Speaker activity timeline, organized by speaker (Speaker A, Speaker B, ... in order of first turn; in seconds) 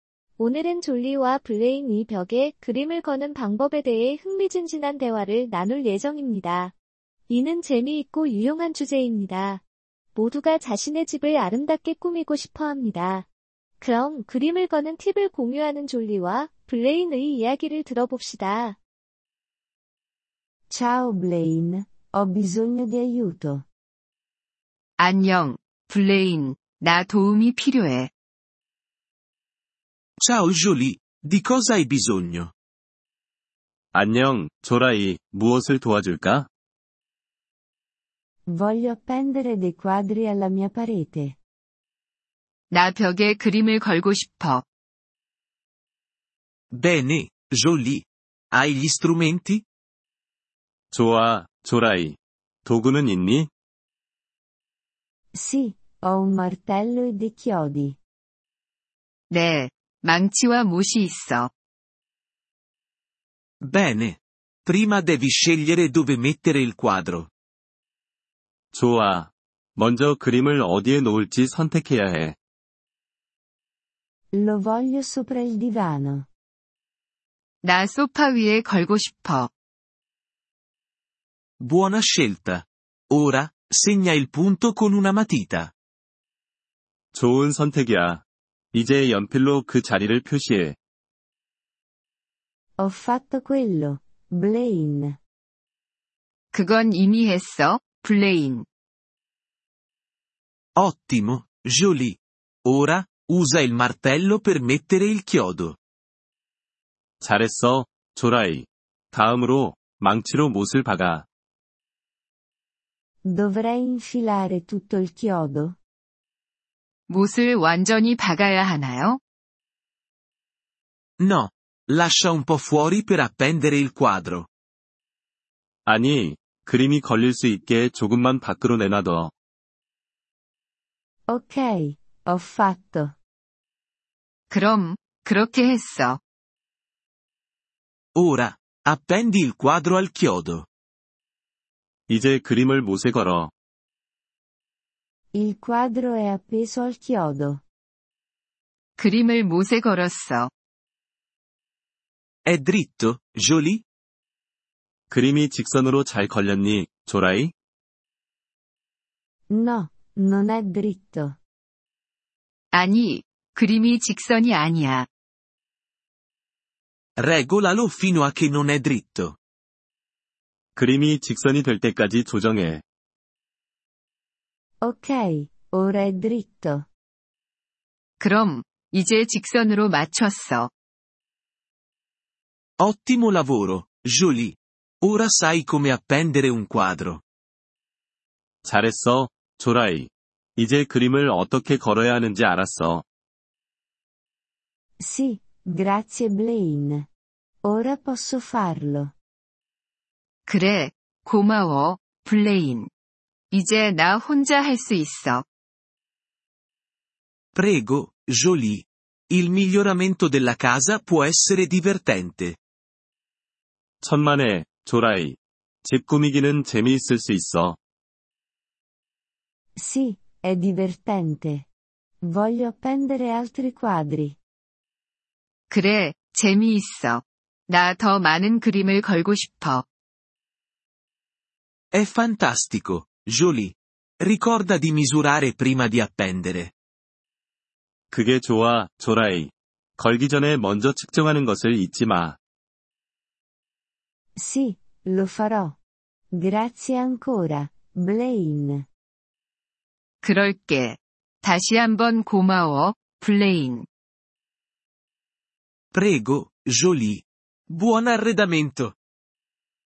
Speaker A: 0.4-6.7, 7.3-9.6, 10.1-13.2, 13.8-18.8
Speaker B: 20.7-23.6, 38.5-41.4, 55.3-58.0, 74.3-76.3, 92.8-95.2, 113.2-115.8, 131.3-133.2, 145.3-147.6, 159.5-161.4, 174.8-176.9, 195.0-197.1, 197.6-199.1, 219.8-221.7, 222.2-224.4, 244.4-245.8, 246.3-248.9
Speaker C: 25.0-28.1, 42.7-44.6, 59.3-61.5, 77.6-79.5, 96.5-98.7, 117.1-119.2, 134.5-136.2, 149.0-150.5, 162.7-165.1, 178.2-180.7, 200.5-202.9, 203.5-205.4, 225.7-229.8, 250.2-253.9
Speaker D: 30.2-32.5, 46.7-49.6, 63.6-67.3, 81.6-85.7, 100.8-105.8, 121.2-124.5, 138.1-140.7, 152.4-153.8, 167.2-169.4, 182.8-187.2, 207.5-212.6, 231.9-236.7, 255.9-258.9
Speaker E: 33.9-36.5, 50.9-53.5, 68.7-72.4, 87.1-90.8, 107.2-111.3, 125.8-129.3, 142.1-143.5, 155.1-157.5, 170.8-172.8, 188.6-193.0, 214.0-217.8, 238.1-242.4